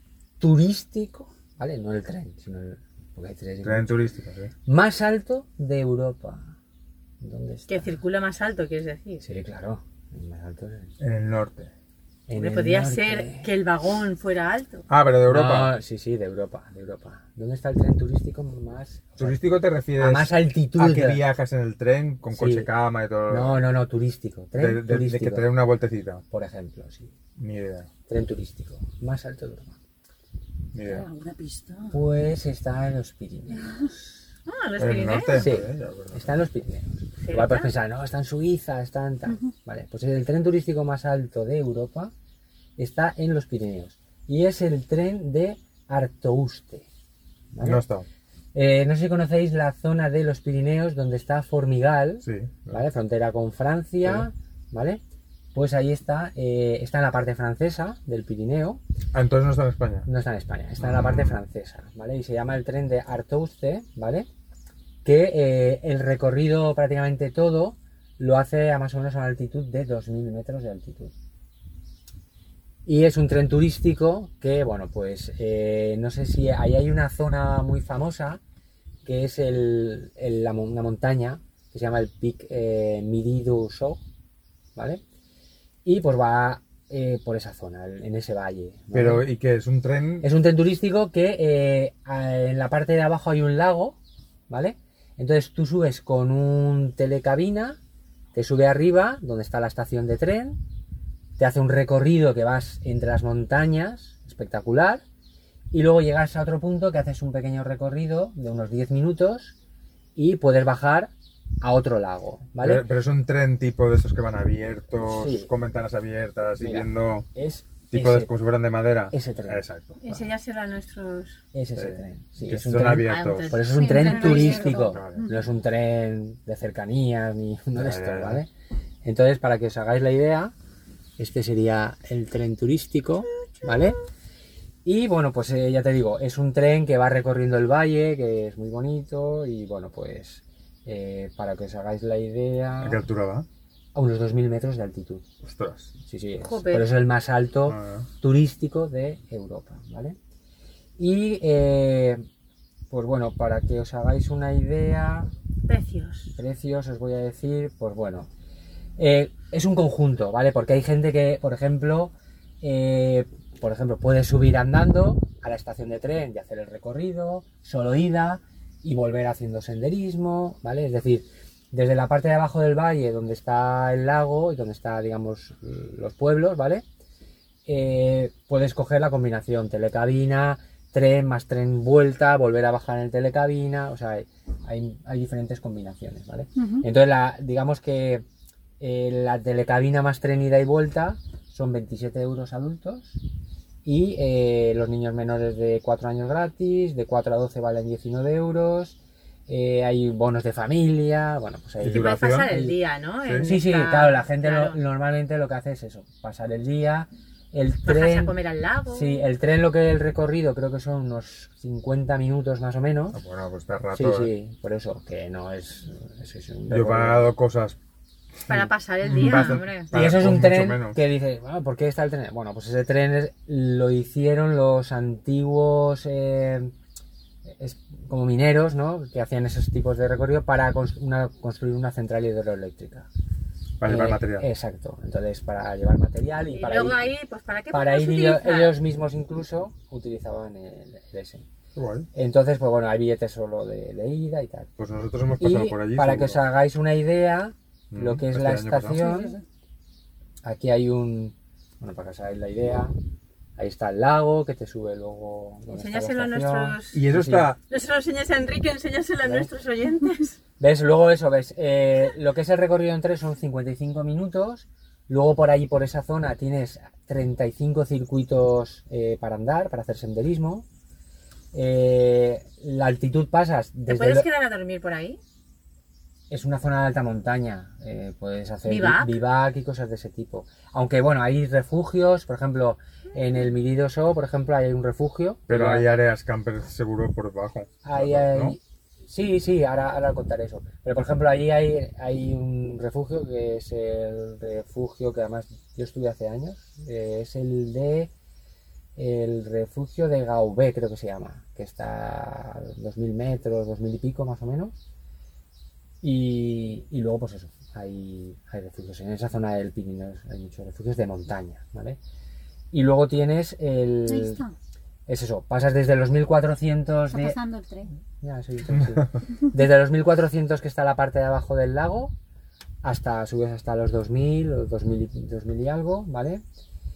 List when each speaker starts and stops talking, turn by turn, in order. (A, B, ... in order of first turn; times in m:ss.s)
0:00.4-0:03.9 A
0:03.6-0:04.5 B
0:04.6-0:06.5 A
0:07.2-0:07.9 A
0:07.7-0:09.2 C
0:09.2-0:10.9 A
0:11.0-0:11.7 B
0:12.3-0:13.5 A
0:12.4-0:14.8 C
0:14.9-0:15.7 B
0:15.2-0:21.2 A
0:19.2-0:23.6 B
0:22.3-0:22.7 A
0:23.3-0:25.5 A
0:24.6-0:26.2 B
0:26.3-0:27.1 A
0:27.4-0:27.9 B
0:28.1-0:29.7 A
0:30.7-0:31.0 B
0:30.8-0:32.0 D
0:31.9-0:34.1 A
0:34.4-0:35.5 C
0:34.8-0:36.4 B
0:35.3-0:42.1 A
0:37.2-0:37.7 C
0:42.8-0:46.9 A
0:47.5-0:47.8 A
0:47.6-0:48.0 B
0:48.5-0:55.0 A
0:52.2-0:52.8 B
0:55.5-0:58.8 A
0:59.1-1:00.1 B
1:00.0-1:04.3 A
1:00.8-1:01.4 B
1:05.0-1:11.1 A
1:12.8-1:18.4 A
1:19.0-1:24.0 A
1:24.8-1:25.0 A
1:25.8-1:29.2 A
1:28.9-1:30.3 B
1:30.2-1:34.0 A
1:34.5-1:37.8 A
1:38.3-1:40.6 A
1:41.4-1:45.0 A
1:45.7-1:49.5 A
1:50.2-1:52.8 A
1:52.6-1:57.3 B
1:54.9-1:55.5 A
1:56.6-1:58.3 A
1:57.9-2:00.3 B
1:59.1-1:59.6 A
2:00.0-2:01.4 C
2:01.5-2:08.5 A
2:01.8-2:03.6 B
2:03.1-2:04.8 C
2:03.7-2:05.4 D
2:04.3-2:05.2 B
2:07.8-2:08.4 B
2:09.0-2:10.5 A
2:11.2-2:14.0 A
2:14.8-2:23.0 A
2:22.8-2:23.4 B
2:23.9-2:25.2 A
2:25.4-2:25.9 B
2:26.0-2:30.2 A
2:26.4-2:26.9 C
2:27.7-2:28.1 B
2:31.0-2:32.2 A
2:32.9-2:35.3 A
2:35.6-2:36.3 C
2:36.3-2:38.3 A
2:39.0-2:56.8 A
2:57.6-3:08.2 A
3:06.6-3:06.9 D
3:08.8-3:13.2 A
3:13.8-3:19.0 A
3:19.5-3:22.8 A
3:21.8-3:22.5 B
3:21.8-3:24.8 C
3:23.4-3:28.4 A
3:27.8-3:29.3 C
3:28.9-3:33.2 A
3:33.1-3:34.3 B
3:33.9-3:37.3 A
3:36.7-3:37.8 B
3:38.4-3:41.0 B
3:38.5-3:39.9 C
3:39.9-3:46.7 A
3:47.4-3:53.1 A
3:53.8-3:54.5 B
3:53.8-3:57.0 A
3:56.5-3:58.8 C
3:57.7-4:01.4 A
4:01.7-4:02.1 B
4:02.1-4:04.7 A
4:04.8-4:06.4 B
4:05.4-4:09.4 A
4:07.9-4:09.0 B
4:08.9-4:09.4 D
4:10.4-4:12.9 A
4:13.6-4:17.5 A
4:15.7-4:17.0 C
4:16.9-4:17.6 B
4:17.7-4:20.4 C
4:20.6-4:30.6 A
4:31.5-4:34.3 A
4:33.9-4:35.2 C
4:36.3-4:46.0 A
4:38.6-4:39.2 C
4:45.5-4:48.6 B
4:47.8-4:58.1 A
4:59.0-5:04.8 A
5:06.0-5:12.0 A
5:12.7-5:14.4 A
5:14.0-5:14.5 D
5:15.1-5:17.4 A
5:17.1-5:17.9 D
5:18.2-5:22.1 A
5:18.7-5:19.1 B
5:22.8-5:26.4 A